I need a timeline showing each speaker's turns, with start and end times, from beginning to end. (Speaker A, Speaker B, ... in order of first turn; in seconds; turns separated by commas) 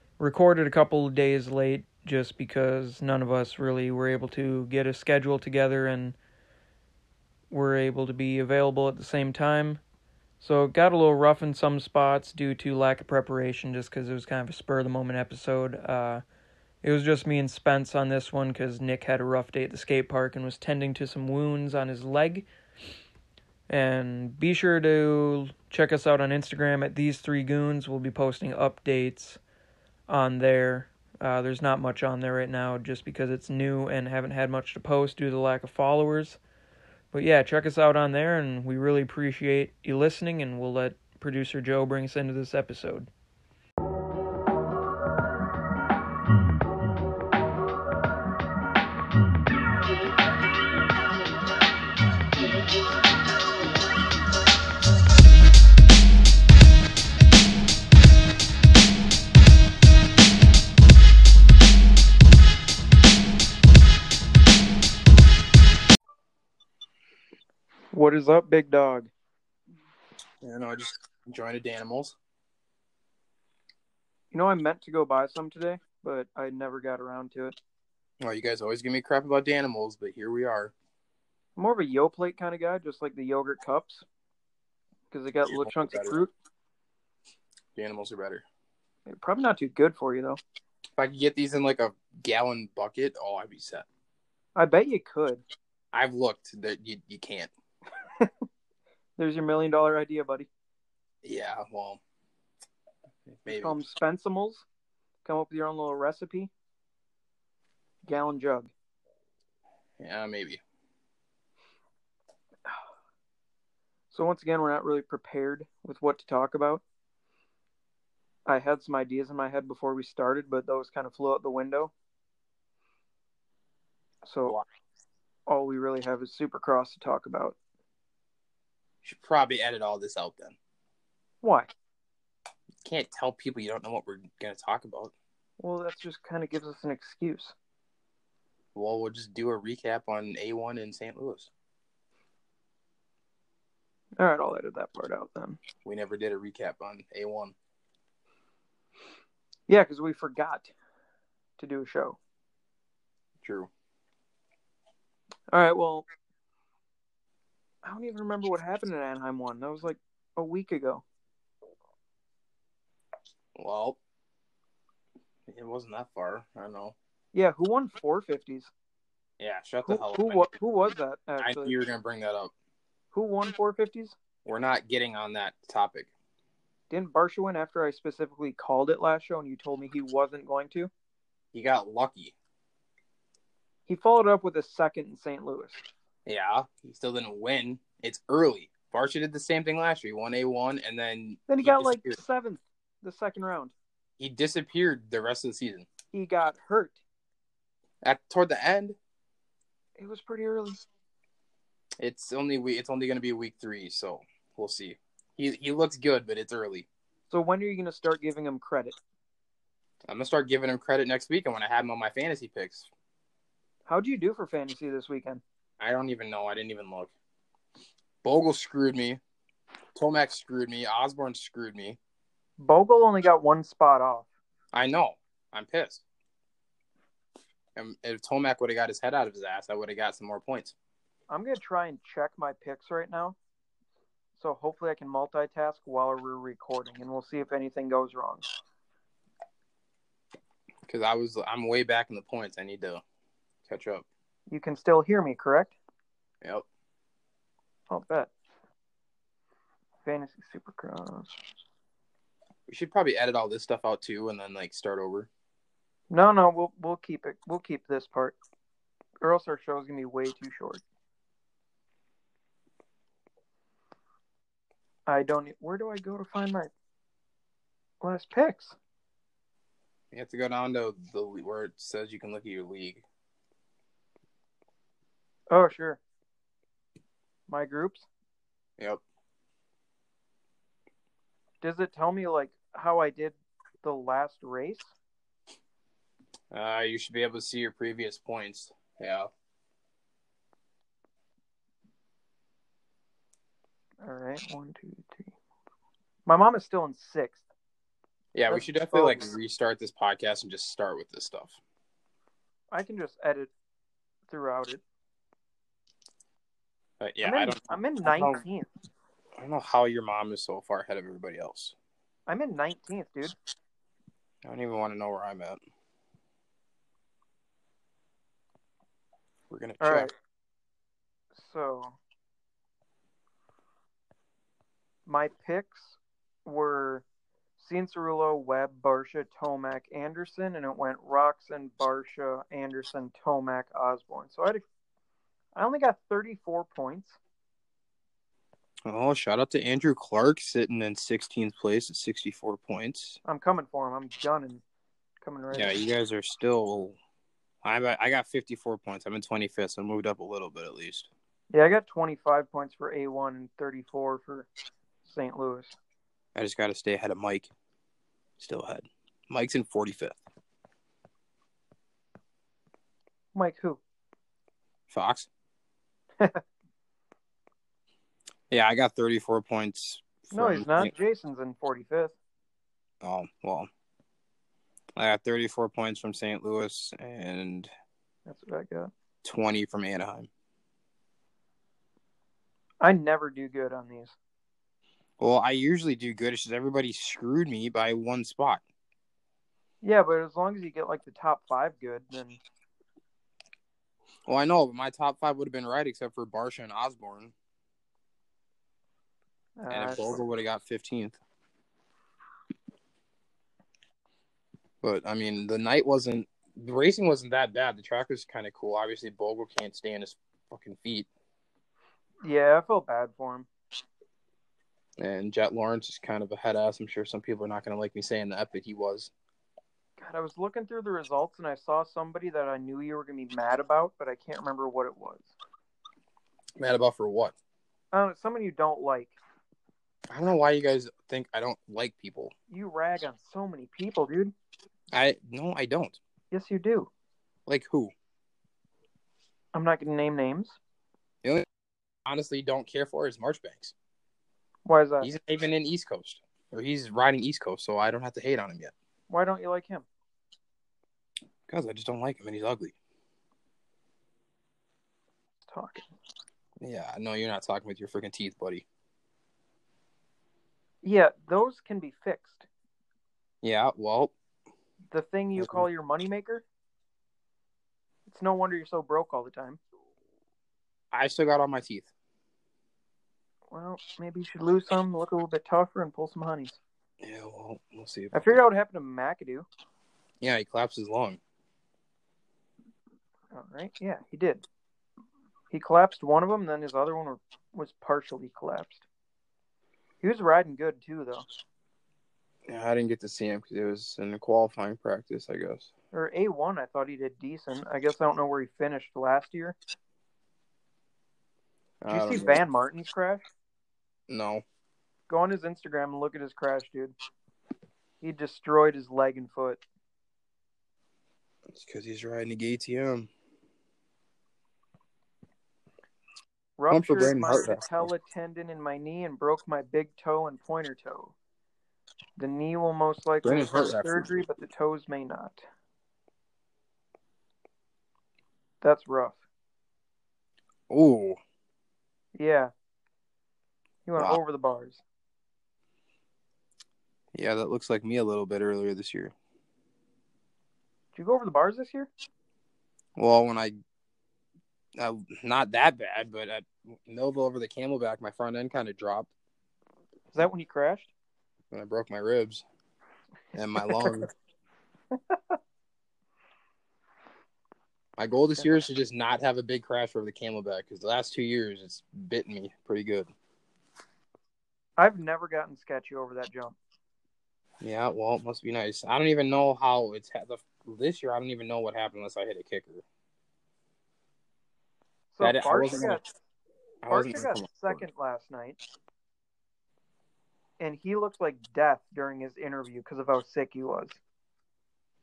Speaker A: 0.2-6.2, Speaker A: 7.5-9.8, Speaker A: 10.4-16.2, Speaker A: 16.8-22.5, Speaker A: 23.7-29.4, Speaker A: 30.1-36.4, Speaker A: 37.1-43.1, Speaker A: 67.9-69.1, Speaker B: 70.4-72.2, Speaker A: 74.3-77.6, Speaker B: 78.2-80.7, Speaker A: 81.6-84.0, Speaker A: 85.1-86.3, Speaker B: 85.5-86.2, Speaker B: 87.7-88.4, Speaker A: 89.1-90.4, Speaker B: 91.0-93.9, Speaker A: 94.5-95.4, Speaker B: 95.9-97.5, Speaker A: 99.2-100.5, Speaker B: 101.2-102.0, Speaker B: 103.3-103.8, Speaker A: 103.5-104.6, Speaker A: 105.2-106.5, Speaker A: 108.0-108.7, Speaker B: 110.0-110.6, Speaker A: 114.1-116.8, Speaker A: 118.5-121.9, Speaker A: 124.2-124.6, Speaker A: 125.5-127.6, Speaker B: 129.0-130.6, Speaker A: 131.4-131.7, Speaker B: 132.8-135.1, Speaker A: 135.6-137.5, Speaker B: 138.7-141.5, Speaker A: 144.2-145.6, Speaker B: 145.8-147.5, Speaker A: 149.7-150.7, Speaker A: 151.6-152.2, Speaker B: 153.4-153.7, Speaker A: 155.5-156.1, Speaker A: 157.8-161.0, Speaker B: 163.5-164.0, Speaker B: 165.5-166.9, Speaker A: 167.3-168.7, Speaker B: 169.4-170.5, Speaker A: 169.8-171.7, Speaker B: 171.4-172.5, Speaker A: 173.1-174.2, Speaker B: 174.4-176.1, Speaker A: 176.9-180.9, Speaker B: 181.5-182.3, Speaker A: 183.9-185.8, Speaker B: 186.2-192.2, Speaker A: 191.5-193.7, Speaker B: 194.2-195.9, Speaker A: 196.1-197.0, Speaker B: 198.0-199.0, Speaker A: 200.0-200.8, Speaker B: 202.0-206.9, Speaker A: 207.3-209.0, Speaker B: 210.1-212.9, Speaker A: 213.9-215.4, Speaker B: 215.8-217.1, Speaker B: 218.2-219.2, Speaker B: 219.9-222.0, Speaker A: 222.6-224.3, Speaker B: 224.7-226.0, Speaker B: 227.8-230.7, Speaker A: 231.3-233.3, Speaker A: 234.3-238.4, Speaker B: 240.8-243.0, Speaker B: 243.7-244.1, Speaker A: 244.5-245.8, Speaker A: 247.9-248.3, Speaker A: 250.0-251.4, Speaker B: 252.7-255.3, Speaker A: 256.1-258.4, Speaker A: 259.2-260.8, Speaker A: 265.1-266.7, Speaker A: 268.0-268.8, Speaker B: 270.1-273.0, Speaker A: 275.5-276.0, Speaker A: 277.5-278.1, Speaker A: 281.6-284.9, Speaker B: 286.5-289.3, Speaker A: 294.0-295.3, Speaker A: 296.2-297.4, Speaker B: 298.3-301.6, Speaker A: 298.5-299.2, Speaker A: 302.7-303.5, Speaker A: 304.3-304.8, Speaker B: 307.0-308.4, Speaker A: 307.2-308.7, Speaker B: 309.4-311.7, Speaker A: 312.3-313.3, Speaker B: 314.4-315.6, Speaker B: 319.5-320.1, Speaker A: 319.8-320.1, Speaker A: 321.3-322.0, Speaker A: 325.1-327.0, Speaker A: 327.6-334.6, Speaker A: 335.5-337.2, Speaker B: 338.8-343.2, Speaker A: 343.2-344.6, Speaker A: 345.2-345.8, Speaker B: 345.5-347.0, Speaker B: 347.6-351.1, Speaker A: 351.5-354.5, Speaker A: 355.0-355.8, Speaker B: 356.3-357.5, Speaker B: 358.4-360.2, Speaker A: 363.3-363.8, Speaker B: 364.9-365.3, Speaker B: 368.5-370.9, Speaker A: 370.3-372.1, Speaker B: 373.0-373.7, Speaker B: 374.9-377.7, Speaker A: 378.3-378.9, Speaker B: 379.2-380.3, Speaker A: 382.8-384.1, Speaker B: 385.2-388.6, Speaker A: 389.8-392.4, Speaker B: 394.3-397.3, Speaker A: 399.6-400.2, Speaker B: 399.7-401.2, Speaker B: 404.8-411.1, Speaker A: 412.2-413.5, Speaker B: 415.0-419.1, Speaker A: 420.0-425.3, Speaker B: 426.6-427.3, Speaker A: 427.9-429.1, Speaker B: 430.1-432.3, Speaker A: 432.5-434.3, Speaker B: 434.9-436.0, Speaker A: 436.3-436.9, Speaker B: 437.5-437.9, Speaker A: 439.5-440.6, Speaker B: 442.1-443.7, Speaker A: 444.6-445.1, Speaker B: 445.0-448.7, Speaker A: 449.1-449.9, Speaker B: 451.5-452.7, Speaker A: 455.5-455.9, Speaker B: 456.6-458.6, Speaker A: 460.8-462.5, Speaker B: 463.4-464.1, Speaker A: 464.9-466.4, Speaker B: 465.4-465.6, Speaker A: 468.1-469.6, Speaker B: 470.9-471.9, Speaker A: 473.5-476.6, Speaker B: 477.0-478.4, Speaker A: 478.1-479.5, Speaker B: 480.2-481.2, Speaker A: 483.3-484.4, Speaker A: 485.5-488.8, Speaker A: 490.0-491.2, Speaker B: 492.5-495.7, Speaker A: 495.9-499.6, Speaker B: 501.8-502.4, Speaker A: 501.9-503.2, Speaker B: 504.1-504.4, Speaker A: 505.1-506.9, Speaker A: 508.0-509.6, Speaker B: 511.5-513.1, Speaker A: 516.6-521.1, Speaker B: 516.7-517.9, Speaker A: 522.2-525.4, Speaker B: 523.2-524.2, Speaker A: 528.6-529.2, Speaker B: 530.7-531.2, Speaker A: 532.1-532.5, Speaker A: 533.8-534.8, Speaker B: 537.1-539.1, Speaker A: 540.9-541.9, Speaker B: 543.0-543.5, Speaker B: 544.8-549.1, Speaker A: 550.1-550.9, Speaker B: 551.5-552.4, Speaker B: 553.3-554.1, Speaker B: 558.0-563.1, Speaker A: 564.8-566.6, Speaker B: 567.6-572.8, Speaker A: 575.1-576.0, Speaker B: 575.2-576.0, Speaker B: 576.8-577.8, Speaker A: 576.9-578.6, Speaker A: 580.6-584.0